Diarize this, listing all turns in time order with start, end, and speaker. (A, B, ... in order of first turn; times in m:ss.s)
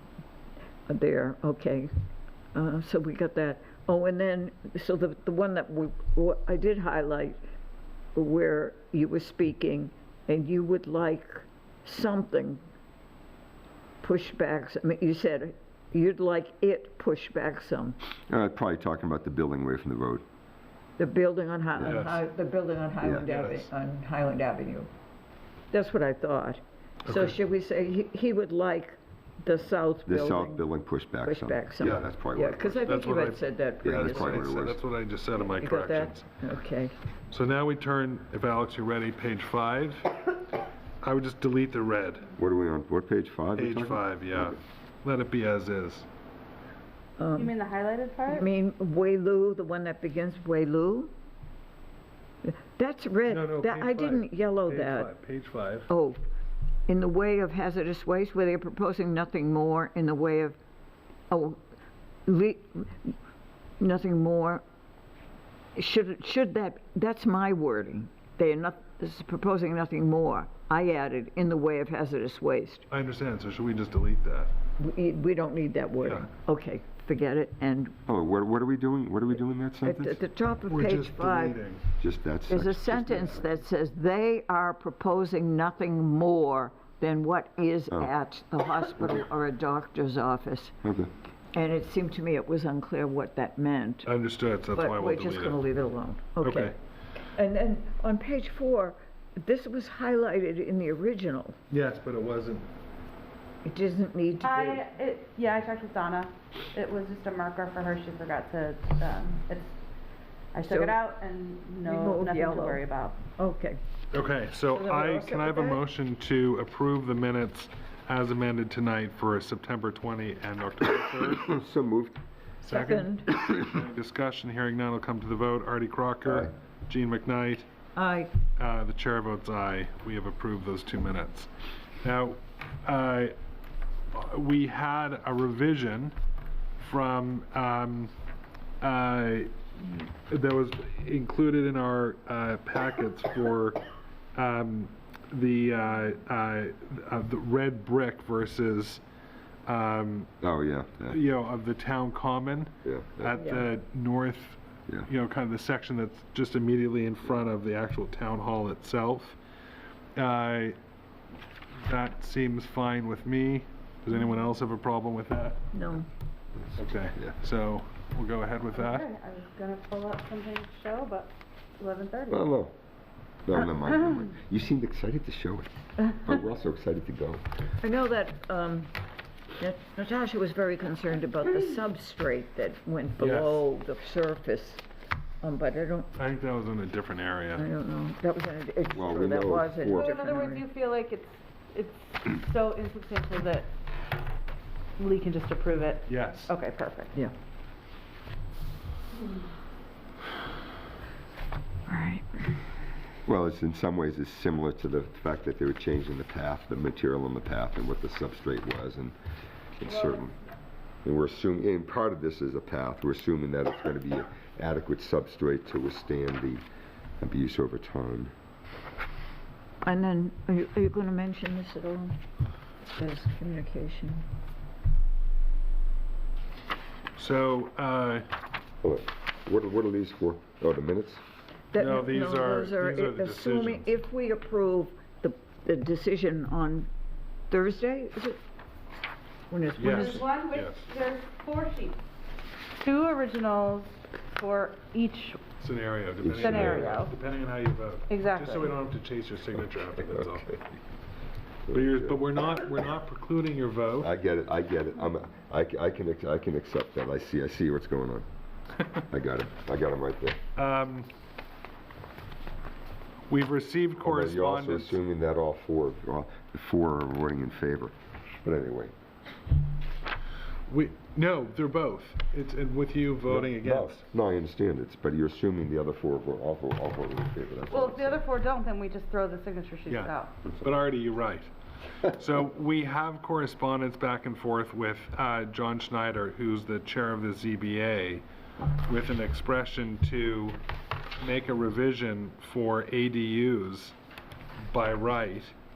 0:00.9-0:01.9 A
0:02.5-0:07.4 A
0:08.2-0:12.6 A
0:14.0-0:18.0 A
0:18.3-0:20.2 B
0:21.0-0:24.9 A
0:21.8-0:22.2 C
0:23.2-0:23.7 C
0:25.7-0:30.6 A
0:27.1-0:27.4 C
0:30.1-0:33.0 B
0:31.2-0:34.5 A
0:32.9-0:36.2 C
0:33.8-0:34.8 B
0:35.5-0:36.9 A
0:37.3-0:40.3 C
0:41.0-0:42.3 C
0:42.4-0:44.0 B
0:43.6-0:46.1 C
0:47.2-0:47.5 A
0:47.4-0:48.5 D
0:48.3-0:51.1 A
0:52.4-0:55.1 A
0:53.3-0:55.9 C
0:55.9-0:56.2 A
0:56.9-1:00.6 A
1:01.3-1:01.6 A
1:02.3-1:03.2 A
1:03.8-1:04.6 A
1:05.8-1:12.9 A
1:12.9-1:14.5 C
1:14.8-1:18.0 A
1:16.0-1:16.3 C
1:18.1-1:20.2 B
1:19.8-1:21.6 A
1:20.7-1:21.9 C
1:22.0-1:23.4 B
1:22.5-1:30.8 A
1:30.8-1:31.1 B
1:31.5-1:34.1 A
1:34.0-1:35.6 C
1:34.7-1:36.7 A
1:36.4-1:36.8 C
1:37.2-1:41.6 A
1:41.7-1:42.7 C
1:43.6-1:44.8 A
1:44.4-1:49.8 D
1:50.5-1:53.2 D
1:50.6-1:51.0 A
1:51.8-1:53.8 A
1:54.1-2:01.6 C
1:54.6-1:55.8 A
2:01.4-2:02.2 B
2:02.6-2:07.7 C
2:02.7-2:03.3 A
2:06.2-2:06.5 B
2:08.0-2:08.3 A
2:08.6-2:13.4 C
2:14.1-2:16.2 C
2:16.8-2:18.1 C
2:18.8-2:23.8 C
2:24.4-2:29.0 C
2:29.7-2:30.4 C
2:30.4-2:31.2 B
2:31.1-2:39.4 C
2:32.8-2:33.4 B
2:33.4-2:33.7 A
2:40.2-2:40.8 C
2:41.8-2:45.6 C
2:45.7-2:46.1 A
2:46.8-2:49.1 C
2:48.7-2:52.5 D
2:52.3-2:52.7 B
2:53.4-2:57.4 B
2:57.8-2:58.9 A
2:59.6-3:04.8 A
3:03.2-3:03.6 C
3:05.4-3:06.1 A
3:06.2-3:07.7 C
3:07.6-3:10.7 A
3:09.0-3:10.2 B
3:09.9-3:13.7 D
3:15.0-3:17.1 D
3:16.1-3:16.5 C
3:21.9-3:22.6 A
3:23.2-3:29.2 B
3:29.8-3:30.4 B
3:31.0-3:36.6 B
3:37.2-3:38.3 B
3:39.8-3:42.2 A
3:43.0-3:44.3 A
3:47.2-3:48.3 C
3:48.8-3:51.2 B
3:51.7-3:56.9 A
3:51.8-3:53.9 C
3:57.5-3:58.4 A
3:59.5-4:00.3 A
3:59.8-4:00.9 C
3:59.8-4:02.0 D
4:02.8-4:05.5 D
4:05.6-4:10.6 C
4:06.2-4:07.0 B
4:06.4-4:07.1 D
4:08.1-4:08.8 D
4:11.7-4:12.2 B
4:11.7-4:14.1 C
4:14.0-4:18.3 B
4:19.1-4:20.4 B
4:20.6-4:21.1 C
4:23.3-4:25.0 C
4:24.0-4:28.9 B
4:30.7-4:34.0 C
4:33.3-4:38.2 B
4:37.7-4:40.3 D
4:39.9-4:41.5 C
4:42.0-4:48.2 C
4:48.9-4:50.6 C
4:51.2-4:54.0 C
4:54.7-4:55.6 C